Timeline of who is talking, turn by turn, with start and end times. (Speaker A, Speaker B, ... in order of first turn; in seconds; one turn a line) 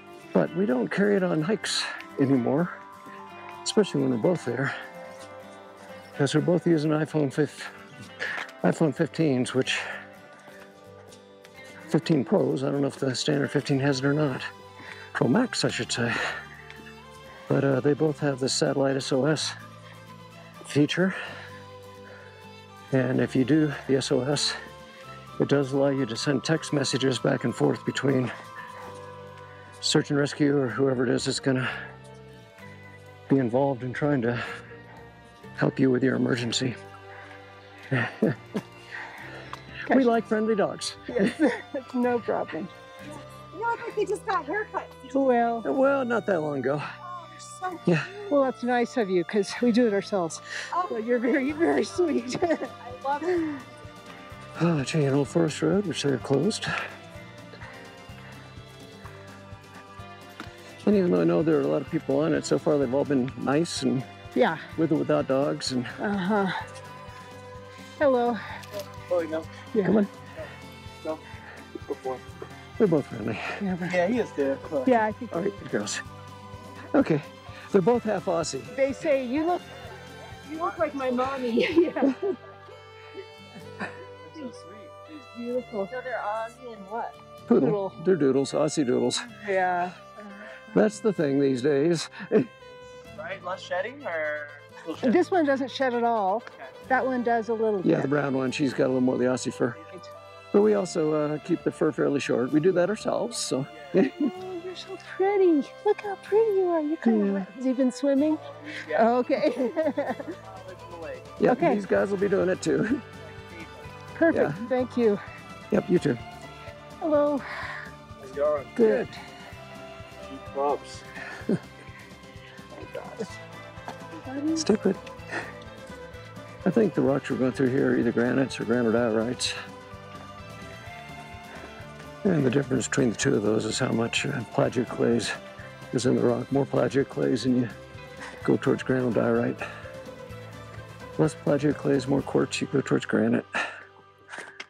Speaker A: 0.3-2.8
Speaker A: 3.6-4.7
Speaker A: 6.2-7.7
Speaker A: 8.6-9.8
Speaker A: 11.9-14.5
Speaker A: 15.2-16.2
Speaker A: 17.5-19.6
Speaker A: 20.6-21.2
Speaker A: 22.9-24.6
Speaker A: 25.4-28.3
Speaker A: 29.8-31.7
Speaker A: 33.3-34.4
Speaker A: 35.6-36.8
Speaker A: 37.9-38.4
Speaker A: 39.9-41.4
Speaker B: 41.1-42.7
Speaker C: 43.1-45.1
Speaker B: 45.1-45.7
Speaker A: 45.6-46.9
Speaker C: 47.0-48.5
Speaker A: 47.9-48.1
Speaker B: 48.3-52.7
Speaker C: 50.7-52.2
Speaker C: 52.8-53.6
Speaker A: 54.6-56.7
Speaker A: 60.8-64.1
Speaker B: 64.3-64.7
Speaker A: 64.8-66.0
Speaker B: 66.0-66.6
Speaker B: 68.0-68.4
Speaker D: 69.1-69.5
Speaker B: 69.7-70.0
Speaker A: 69.8-70.1
Speaker D: 71.9-72.2
Speaker A: 72.8-73.6
Speaker B: 73.6-74.1
Speaker D: 73.9-74.9
Speaker B: 74.8-75.6
Speaker A: 75.3-76.0
Speaker A: 76.9-78.7
Speaker B: 78.7-79.8
Speaker B: 80.5-82.3
Speaker C: 80.6-81.3
Speaker D: 84.4-84.9
Speaker B: 85.2-86.0
Speaker C: 85.9-87.2
Speaker A: 87.5-89.3
Speaker B: 87.5-88.0
Speaker B: 89.2-90.1
Speaker A: 90.7-92.5
Speaker D: 93.2-95.0
Speaker B: 94.9-98.1
Speaker A: 97.8-99.8
Speaker A: 100.5-104.3
Speaker B: 104.0-110.4
Speaker A: 107.0-107.5
Speaker D: 108.7-109.0
Speaker D: 110.4-111.3
Speaker A: 111.4-113.0
Speaker B: 111.4-111.8
Speaker D: 113.3-113.7
Speaker B: 114.2-115.2
Speaker A: 114.3-114.6
Speaker A: 115.7-116.2
Speaker B: 117.0-117.5
Speaker D: 118.2-118.8
Speaker B: 118.8-119.2
Speaker A: 118.8-119.1
Speaker D: 120.2-121.1
Speaker B: 122.7-123.4
Speaker B: 124.3-124.6
Speaker A: 124.6-125.0
Speaker A: 126.7-129.5
Speaker A: 132.2-135.3
Speaker A: 135.9-137.7
Speaker A: 138.4-139.6
Speaker A: 141.2-143.5